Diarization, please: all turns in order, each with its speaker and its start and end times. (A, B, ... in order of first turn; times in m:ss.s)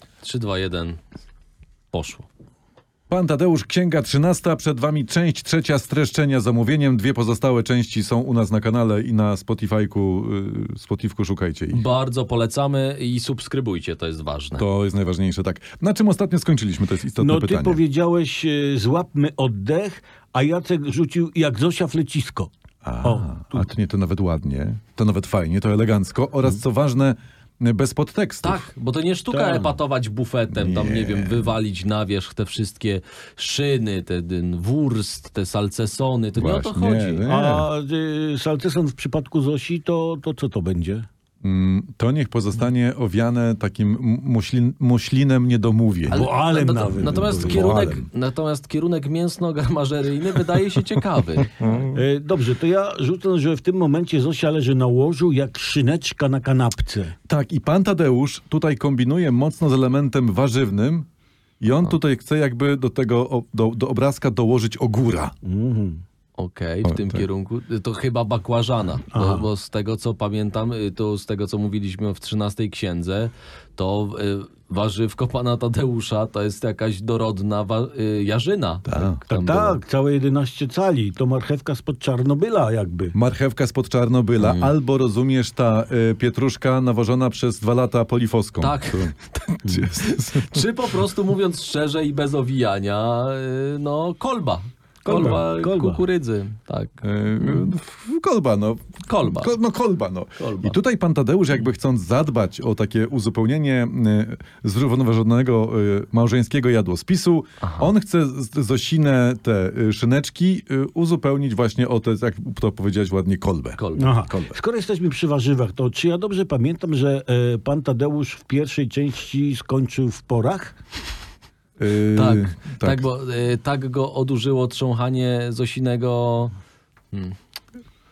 0:00.2-0:01.0 A
0:01.9-0:02.3 A
0:03.1-0:11.8 B
0:11.7-0:14.6 A
0:14.6-0:17.8 B
0:17.2-0:22.5 C
0:22.8-0:28.7 B
0:23.0-0:23.7 C
0:28.4-0:37.2 A
0:29.3-0:29.8 C
0:30.5-0:31.6 B
0:36.4-0:37.7 B
0:37.2-0:41.1 C
0:41.4-0:46.2 B
0:46.1-0:51.8 A
0:46.1-0:47.8 C
0:47.0-0:48.1 B
0:51.6-0:52.0 B
0:51.9-0:57.1 C
0:57.3-1:01.1 B
1:01.6-1:05.3 B
1:05.4-1:06.0 C
1:06.4-1:19.8 A
1:06.8-1:07.2 B
1:09.1-1:09.5 C
1:18.8-1:19.2 B
1:19.3-1:23.1 C
1:23.1-1:30.6 B
1:24.4-1:24.7 A
1:28.6-1:29.3 A
1:30.0-1:37.7 A
1:35.0-1:36.0 C
1:37.0-1:54.6 B
1:39.0-1:39.5 A
1:40.4-1:40.8 A
1:47.6-1:47.9 A
1:53.8-1:54.1 A
1:54.0-2:00.8 C
2:01.8-2:03.0 B
2:02.1-2:06.5 A